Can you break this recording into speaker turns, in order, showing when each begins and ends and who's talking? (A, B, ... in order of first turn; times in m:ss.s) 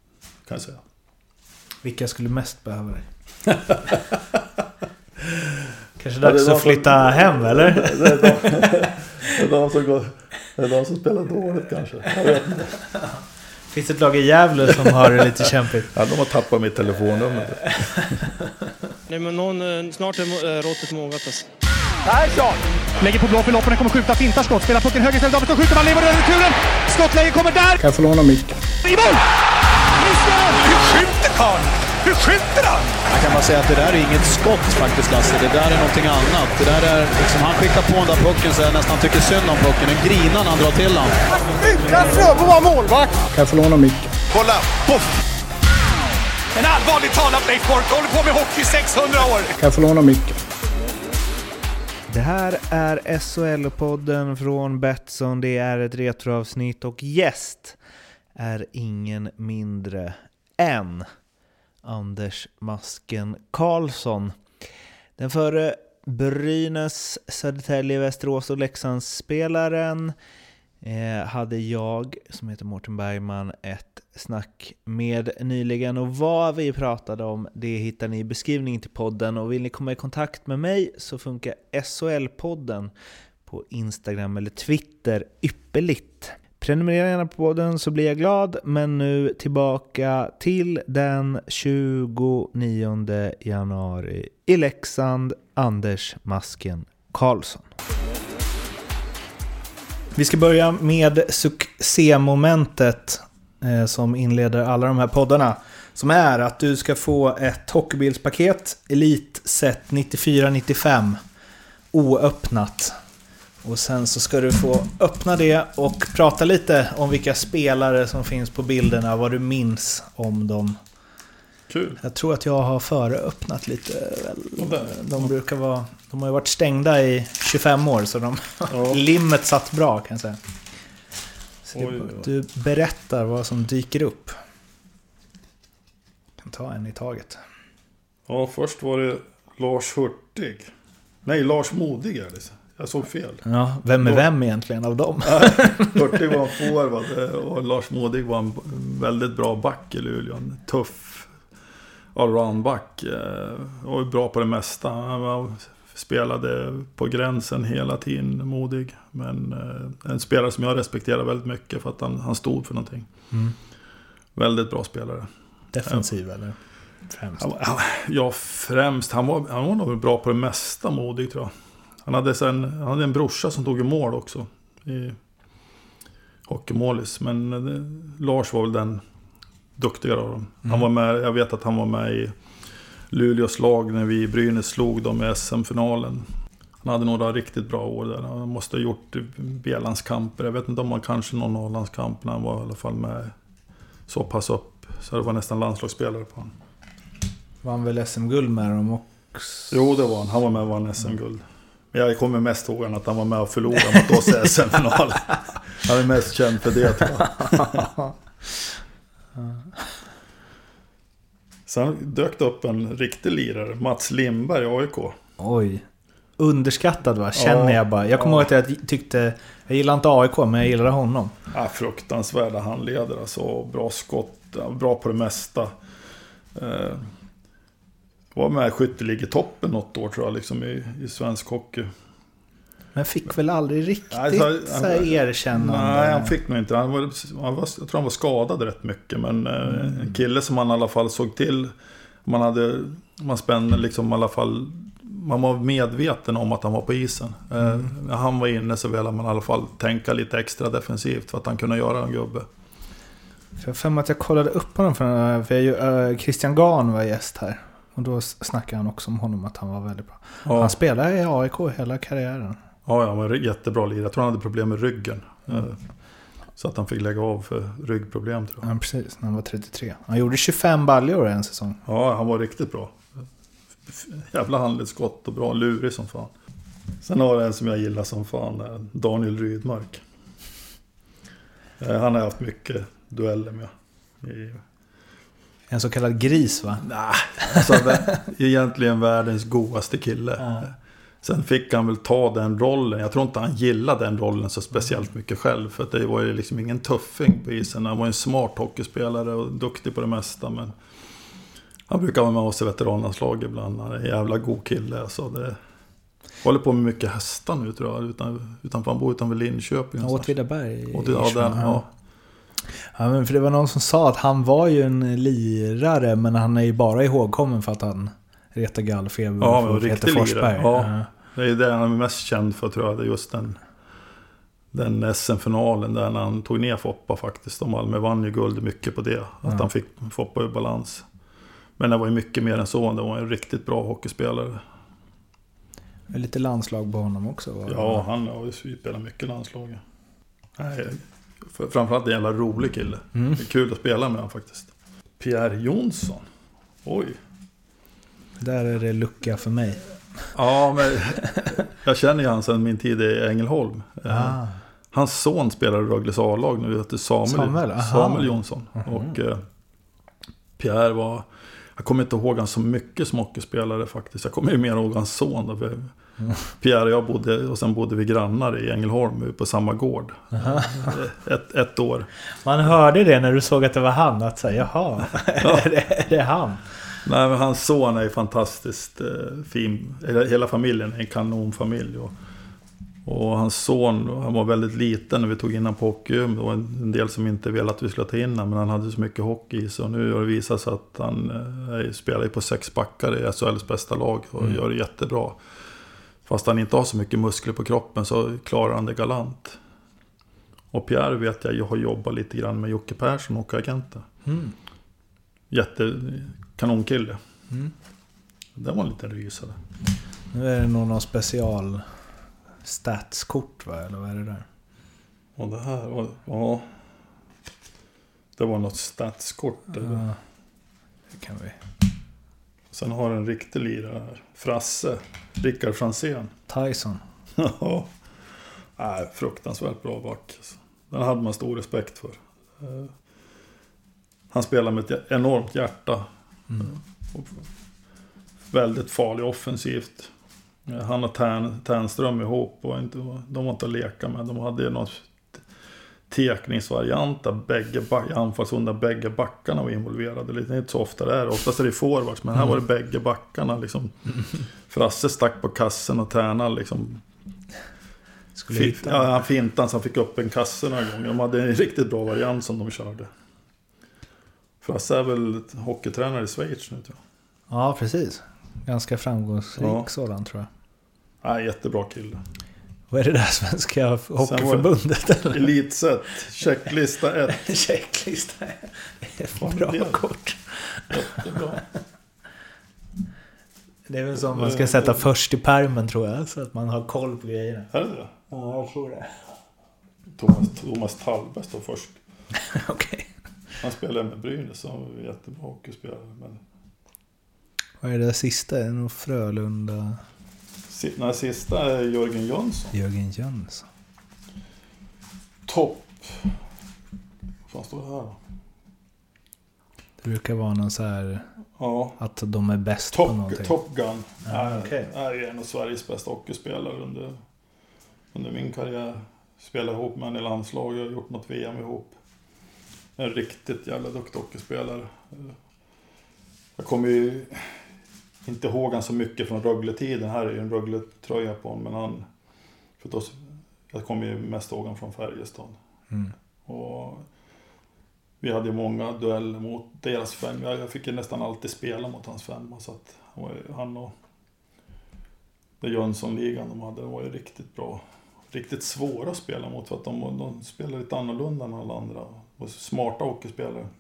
0:00.5-0:00.8 A
0:01.8-0:03.1 B
0:03.5-0:04.2 A
0:06.0-0:08.9 B
0:06.2-0:12.8 A
0:13.7-0:15.9 B
0:14.9-0:18.2 A
0:18.0-0:18.6 B
0:19.1-0:21.5 C
0:22.1-0:27.8 D
0:27.8-0:28.6 E
0:28.8-0:29.2 D
0:30.0-0:33.0 D
0:33.1-0:41.2 F
0:41.6-0:43.2 D
0:43.3-0:44.1 E
0:44.3-0:45.0 F
0:46.6-0:49.5 D
0:49.6-0:50.4 E
0:52.1-0:57.8 B
0:58.4-1:01.1 B
1:01.8-1:04.4 B
1:05.2-1:10.2 B
1:10.8-1:22.9 B
1:23.5-1:37.7 B
1:40.2-1:51.2 B
1:51.9-1:53.0 B
1:53.6-2:00.8 B
2:01.7-2:02.0 A
2:02.0-2:10.4 B
2:04.6-2:05.3 A
2:08.7-2:09.0 A
2:11.7-2:14.4 B
2:11.7-2:12.3 A
2:16.4-2:17.4 B
2:18.3-2:20.7 A
2:21.2-2:23.5 A
2:23.4-2:26.2 B
2:25.2-2:31.3 A
2:32.1-2:43.1 A
2:44.4-2:45.3 A
2:45.7-2:46.6 B
2:47.1-2:47.5 B
2:47.4-2:51.5 A
2:52.0-2:55.2 A
2:56.5-2:59.0 A
2:59.8-3:02.3 A
3:03.1-3:06.3 A
3:06.8-3:13.3 A
3:14.1-3:16.5 A
3:17.6-3:19.7 B
3:19.7-3:27.9 A
3:27.0-3:28.1 B
3:29.4-3:29.9 B
3:31.7-3:35.2 A
3:35.4-3:35.9 B
3:36.4-3:41.3 B
3:37.4-3:38.5 A
3:41.5-3:45.7 A
3:46.6-3:47.1 A
3:48.4-3:51.9 A
3:53.0-3:56.3 B
3:54.1-4:01.7 A
4:02.2-4:12.5 A
4:13.6-4:22.6 B
4:20.4-4:20.8 A
4:22.9-4:25.8 A
4:26.6-4:28.7 A
4:28.6-4:31.8 B
4:31.8-4:33.0 A
4:33.9-4:36.3 A
4:37.0-4:40.0 A
4:41.8-4:43.7 A
4:44.2-4:44.6 A
4:45.7-4:46.8 B
4:46.8-5:00.8 A
4:47.4-4:48.0 B
4:50.4-4:50.7 B
5:01.9-5:05.6 A
5:06.4-5:10.3 A
5:10.0-5:11.8 B
5:10.9-5:11.9 A
5:12.8-5:21.1 B
5:19.4-5:23.6 A
5:24.7-5:31.1 A
5:31.8-5:34.6 A
5:36.1-5:38.1 B
5:37.7-5:39.8 A
5:40.6-5:46.3 A
5:46.8-5:47.2 A
5:48.4-5:49.8 B
5:50.3-5:54.4 A
5:54.1-5:54.6 B
5:54.9-5:59.4 A
5:57.3-5:59.1 B
6:00.6-6:01.3 A
6:01.8-6:05.9 A
6:06.4-6:12.1 A
6:10.4-6:10.9 B
6:12.4-6:16.6 B
6:15.4-6:15.7 A
6:17.0-6:22.1 A
6:23.0-6:35.4 A
6:36.3-6:39.6 A
6:40.7-6:44.0 A
6:44.3-6:44.5 B
6:45.5-6:47.2 A
6:48.6-6:49.6 A
6:50.3-6:51.8 B
6:52.6-6:54.4 B
6:55.4-6:56.7 A
6:58.4-7:00.1 A
6:59.8-7:00.2 B
7:01.1-7:01.6 B
7:02.7-7:06.3 A
7:06.5-7:07.0 B
7:07.4-7:07.9 A
7:08.8-7:12.9 A
7:14.3-7:16.1 A
7:16.6-7:17.4 A
7:18.5-7:20.1 A
7:20.7-7:25.4 A
7:26.1-7:34.0 A
7:34.7-7:37.0 A
7:38.4-7:39.1 B
7:38.5-7:43.1 A
7:44.6-7:47.0 A
7:47.5-7:50.5 B
7:49.6-7:49.9 A
7:51.2-7:52.2 A
7:52.9-7:55.5 B
7:54.2-7:54.7 A
7:55.3-7:57.5 A
7:57.3-8:01.4 B
7:59.4-8:00.0 A
8:00.9-8:01.7 A
8:03.9-8:07.7 B
8:04.2-8:05.0 A
8:07.7-8:08.3 A
8:08.3-8:09.2 B
8:10.2-8:12.0 A
8:12.4-8:13.1 B
8:13.6-8:16.4 A
8:17.8-8:20.0 B
8:20.7-8:22.7 A
8:22.7-8:23.7 B
8:25.5-8:26.3 A
8:27.5-8:28.2 A
8:30.0-8:31.3 B
8:31.6-8:32.0 A
8:32.0-8:33.6 B
8:32.9-8:37.2 A
8:34.3-8:34.9 B
8:38.1-8:42.0 A
8:43.0-8:45.4 A
8:46.6-8:47.6 A
8:48.2-8:52.1 A
8:52.8-8:53.2 A
8:53.7-8:55.6 A
8:56.5-8:57.0 A
8:58.2-9:03.9 A
9:05.6-9:13.7 A